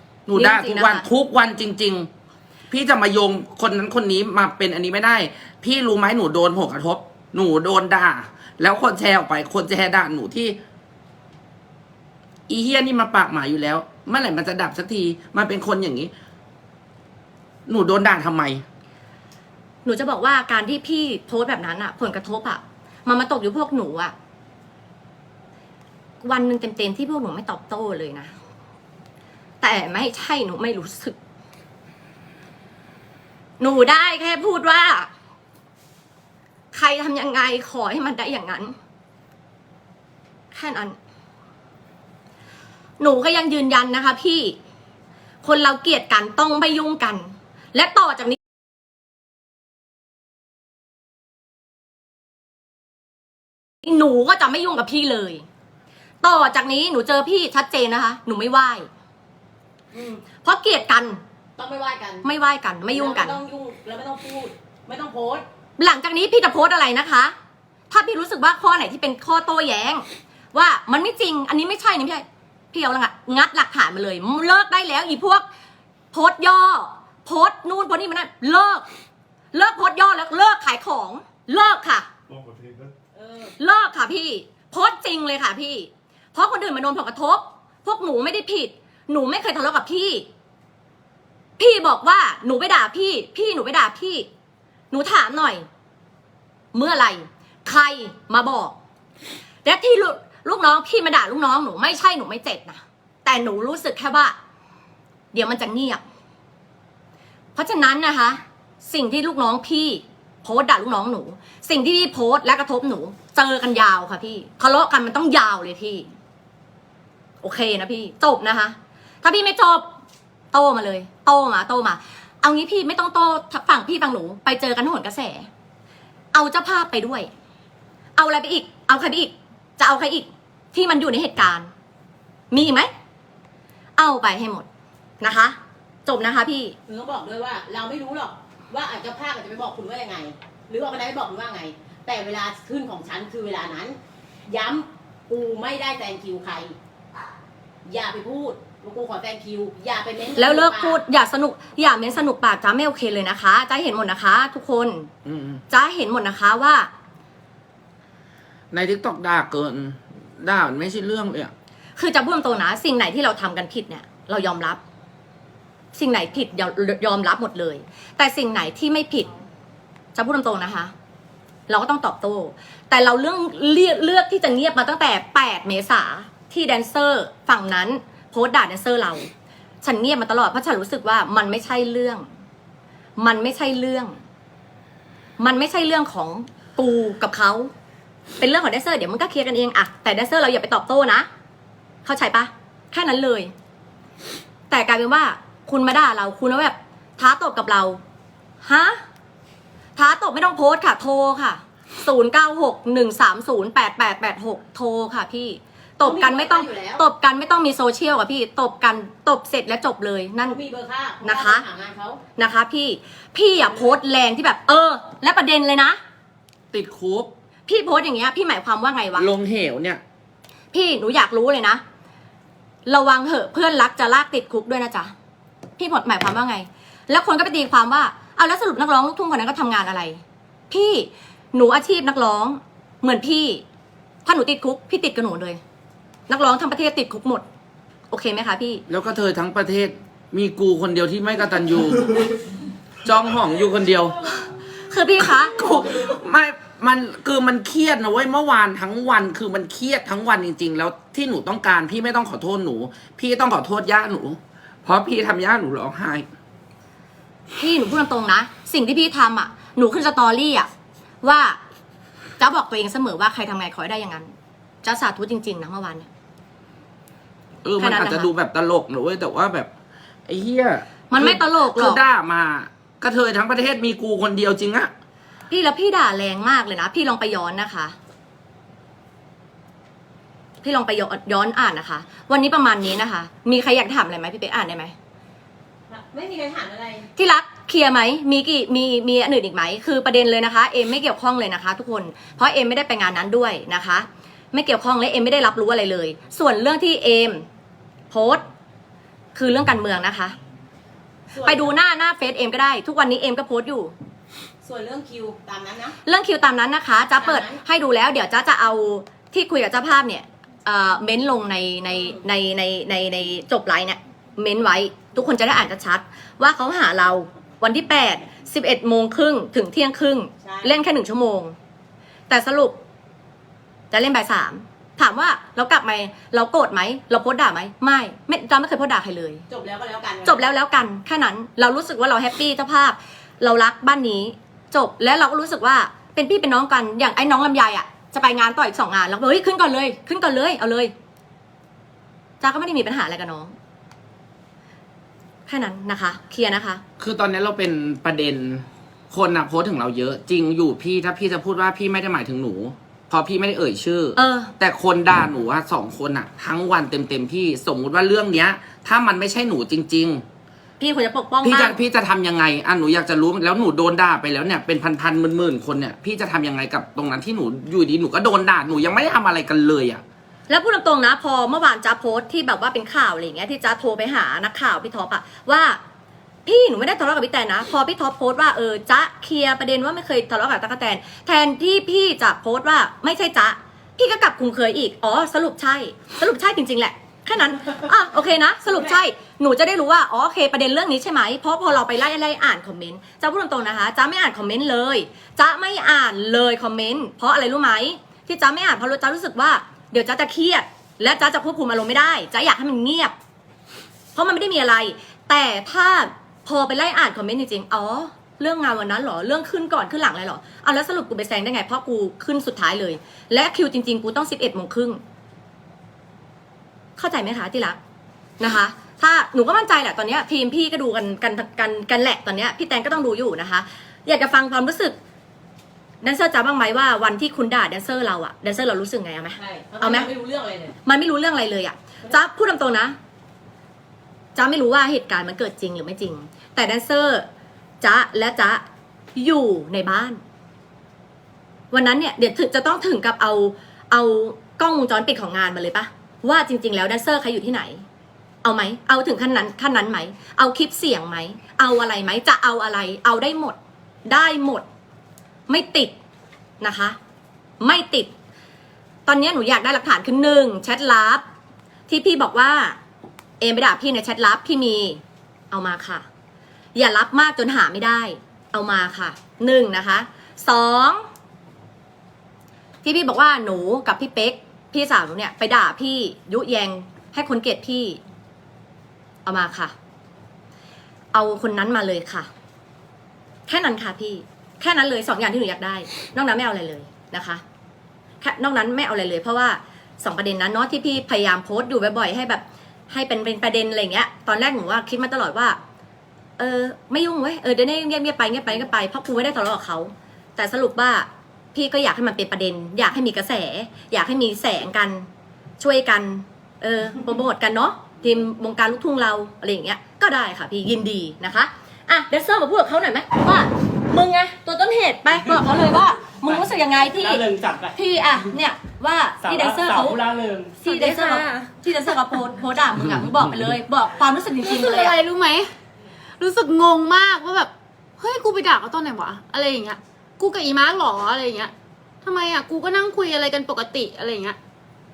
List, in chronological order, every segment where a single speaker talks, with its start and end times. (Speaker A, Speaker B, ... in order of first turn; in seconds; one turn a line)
Speaker A: 0.3-2.1
Speaker B: 0.3-1.1
Speaker A: 2.7-10.6
Speaker A: 12.5-16.1
Speaker A: 17.7-18.6
Speaker B: 19.9-24.1
Speaker B: 26.2-28.3
Speaker B: 29.6-31.2
Speaker B: 33.6-35.1
Speaker B: 36.7-38.8
Speaker B: 40.5-41.0
Speaker B: 43.0-44.6
Speaker B: 45.4-48.4
Speaker B: 53.8-55.5
Speaker B: 56.2-58.9
Speaker B: 60.2-61.2
Speaker C: 61.6-62.2
Speaker B: 62.2-63.4
Speaker C: 62.9-65.5
Speaker B: 65.8-67.3
Speaker B: 67.9-75.5
Speaker B: 76.1-78.9
Speaker B: 79.5-82.1
Speaker A: 82.4-82.9
Speaker C: 83.1-83.5
Speaker B: 83.6-90.3
Speaker B: 91.6-94.3
Speaker B: 94.9-95.7
Speaker B: 96.7-98.8
Speaker B: 99.7-104.4
Speaker B: 105.3-106.0
Speaker B: 107.5-116.1
Speaker B: 117.4-119.9
Speaker B: 120.5-125.5
Speaker B: 126.3-127.3
Speaker B: 128.2-131.7
Speaker B: 132.5-132.9
Speaker B: 134.0-134.7
Speaker B: 135.2-136.8
Speaker C: 136.9-146.8
Speaker C: 147.9-151.0
Speaker B: 150.4-155.1
Speaker A: 155.2-155.6
Speaker B: 155.7-156.9
Speaker A: 158.7-161.5
Speaker B: 162.0-164.8
Speaker B: 165.9-169.3
Speaker B: 170.2-170.9
Speaker B: 171.7-179.3
Speaker B: 179.8-182.3
Speaker B: 183.2-184.2
Speaker B: 185.4-187.7
Speaker B: 188.4-191.3
Speaker B: 192.1-193.5
Speaker B: 194.7-198.0
Speaker B: 198.6-199.0
Speaker B: 200.0-210.6
Speaker C: 206.0-207.0
Speaker C: 210.4-212.2
Speaker B: 211.2-211.7
Speaker B: 212.4-216.0
Speaker A: 216.7-217.3
Speaker B: 217.7-219.3
Speaker A: 219.2-220.0
Speaker B: 220.7-221.8
Speaker B: 222.9-225.1
Speaker B: 225.8-233.7
Speaker B: 234.2-235.6
Speaker B: 236.3-237.4
Speaker B: 238.1-238.8
Speaker A: 238.9-242.3
Speaker A: 243.0-244.5
Speaker B: 244.9-245.7
Speaker A: 245.3-256.3
Speaker B: 257.6-260.7
Speaker B: 261.2-261.6
Speaker B: 262.4-266.1
Speaker A: 267.6-269.7
Speaker B: 267.8-268.3
Speaker A: 270.3-274.9
Speaker B: 271.1-272.0
Speaker B: 275.5-278.0
Speaker B: 280.6-284.9
Speaker C: 285.9-287.1
Speaker B: 287.2-297.5
Speaker B: 298.1-298.4
Speaker B: 299.4-300.4
Speaker C: 301.3-301.7
Speaker B: 301.4-303.9
Speaker C: 304.6-306.0
Speaker B: 306.1-321.6
Speaker C: 307.2-307.6
Speaker C: 320.4-320.7
Speaker B: 322.3-322.8
Speaker B: 323.9-329.4
Speaker C: 329.5-330.5
Speaker B: 330.2-340.9
Speaker B: 342.4-343.5
Speaker B: 345.5-346.8
Speaker A: 347.0-360.2
Speaker B: 354.2-354.5
Speaker B: 360.8-361.8
Speaker A: 361.4-370.0
Speaker B: 370.5-375.8
Speaker B: 376.5-403.1
Speaker B: 404.1-415.0
Speaker B: 417.0-417.8
Speaker B: 418.4-425.0
Speaker B: 426.0-430.1
Speaker C: 429.4-430.8
Speaker B: 430.9-433.0
Speaker B: 434.4-437.3
Speaker B: 437.8-438.6
Speaker B: 439.2-440.2
Speaker B: 441.7-447.9
Speaker B: 448.4-454.6
Speaker B: 455.5-456.0
Speaker B: 456.6-457.0
Speaker B: 457.6-458.1
Speaker B: 459.1-461.2
Speaker B: 461.9-462.8
Speaker B: 463.4-466.1
Speaker B: 466.8-471.1
Speaker B: 472.8-478.0
Speaker B: 479.2-479.7
Speaker B: 481.1-482.3
Speaker B: 483.5-487.4
Speaker B: 488.2-495.6
Speaker B: 496.4-505.1
Speaker B: 505.6-517.2
Speaker D: 516.2-517.8
Speaker B: 517.8-520.0
Speaker D: 519.2-520.6
Speaker B: 520.6-525.0
Speaker E: 520.6-521.5
Speaker E: 524.4-525.5
Speaker E: 526.2-531.5
Speaker E: 532.0-534.4